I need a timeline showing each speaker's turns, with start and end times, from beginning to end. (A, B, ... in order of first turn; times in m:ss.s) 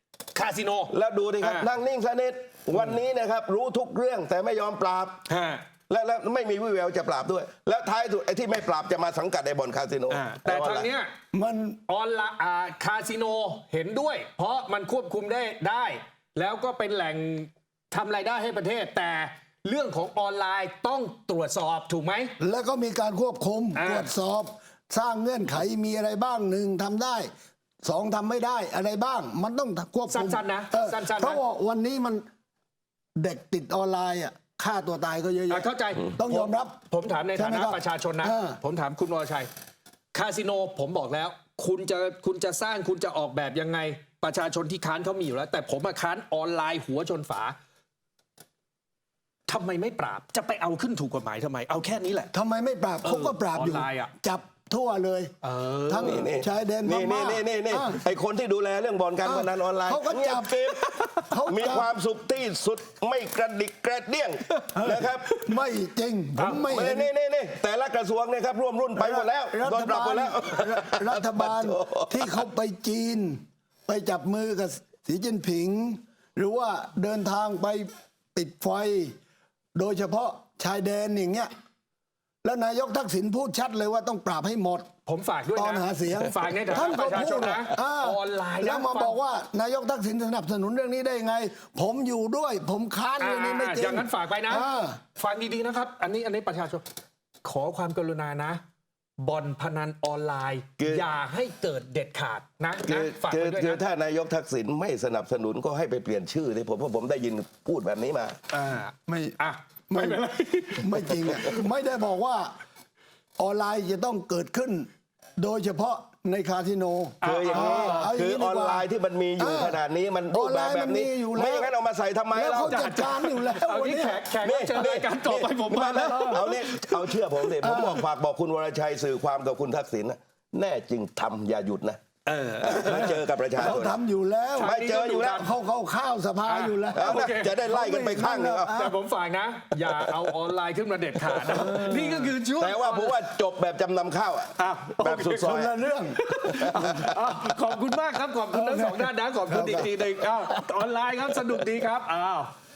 0:00.3-0:01.7 A
0:00.9-0:05.2 B
0:05.3-0:05.6 A
0:05.9-0:10.9 B
0:10.1-0:11.1 A
0:11.3-0:11.8 C
0:11.9-0:22.3 A
0:22.4-0:27.3 C
0:23.8-0:24.1 A
0:27.8-0:32.2 C
0:30.1-0:31.4 A
0:33.2-0:36.8 C
0:35.5-0:39.5 A
0:37.4-0:38.6 C
0:40.1-0:47.6 A
0:49.5-0:52.3 A
0:52.3-0:55.3 C
0:53.0-0:54.1 A
0:55.4-0:56.3 A
0:55.9-0:58.0 C
0:56.0-1:05.5 B
0:59.2-1:01.9 C
1:04.7-1:07.1 C
1:06.6-1:12.4 B
1:08.9-1:19.1 C
1:19.8-1:21.5 C
1:22.4-1:24.9 C
1:25.0-1:29.2 A
1:25.6-1:35.0 C
1:33.2-1:36.8 A
1:37.4-1:38.6 A
1:39.2-1:43.8 A
1:40.8-1:41.1 B
1:42.9-1:48.4 B
1:48.5-1:51.6 A
1:49.0-1:49.4 C
1:49.9-1:50.2 C
1:50.8-1:52.5 C
1:53.4-2:01.7 C
1:57.2-1:58.1 A
1:57.2-2:02.9 B
2:02.3-2:04.3 C
2:02.6-2:06.9 A
2:04.4-2:12.0 B
2:06.0-2:06.6 C
2:07.6-2:08.0 C
2:12.2-2:13.2 A
2:12.6-2:14.0 B
2:12.9-2:14.8 C
2:14.6-2:15.5 A
2:14.6-2:15.5 B
2:15.4-2:19.0 C
2:16.4-2:17.5 A
2:16.9-2:18.8 B
2:18.7-2:23.2 A
2:19.8-2:20.2 B
2:21.3-2:21.7 B
2:21.4-2:22.3 C
2:22.6-2:25.7 B
2:24.6-2:25.5 A
2:25.4-2:27.4 C
2:26.1-2:32.5 A
2:26.5-2:27.1 B
2:28.5-2:30.6 C